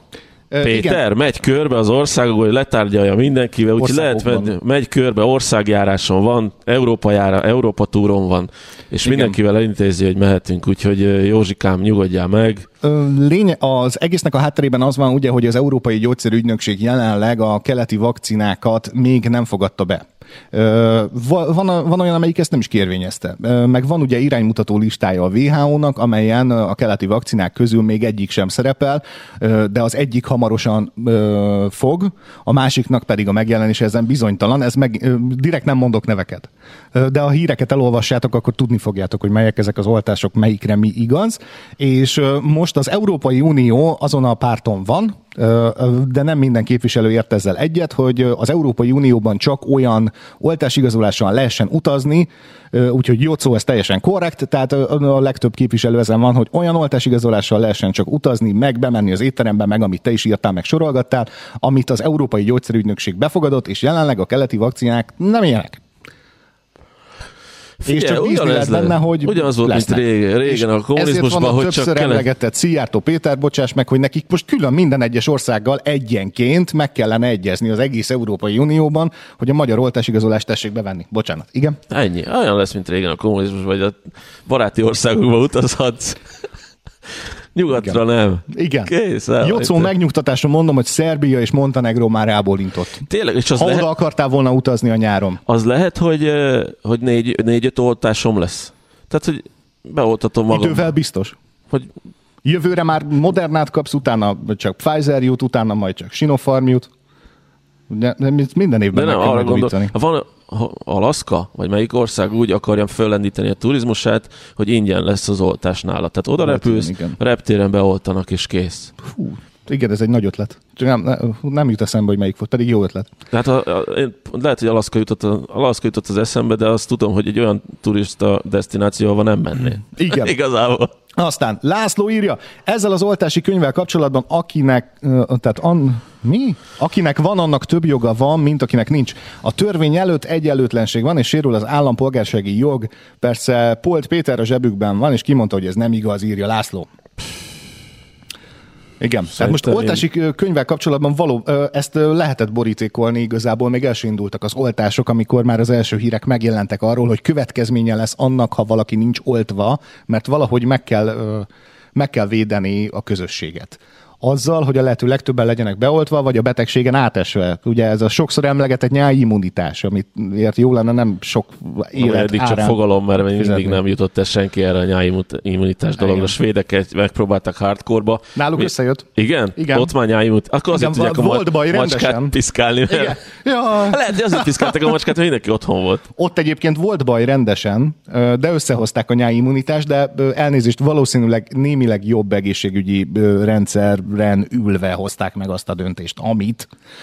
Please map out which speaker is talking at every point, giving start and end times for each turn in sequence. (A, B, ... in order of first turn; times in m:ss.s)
0:00.5-0:01.0 A
0:00.6-0:12.7 B
0:03.8-0:04.5 A
0:09.0-0:09.4 A
0:12.8-1:05.8 A
1:07.8-1:12.2 B
1:07.8-1:21.8 A
1:21.9-1:26.3 B
1:27.5-1:29.9 B
1:28.5-1:35.4 A
1:33.1-1:33.9 B
1:35.4-1:40.9 B
1:40.5-1:41.4 A
1:42.4-1:46.9 A
1:47.9-1:49.9 A
1:48.9-1:58.9 B
1:56.4-1:57.2 A
1:59.0-2:03.1 A
2:03.3-2:10.9 B
2:09.9-2:10.3 A
2:11.2-2:26.9 A
2:29.0-2:53.8 A
2:29.3-2:30.0 B
2:52.0-3:03.2 B
2:56.0-2:56.3 A
2:58.4-2:59.9 A
3:00.7-3:02.4 A
3:02.9-3:04.7 A
3:03.7-3:06.0 B
3:06.2-3:16.7 A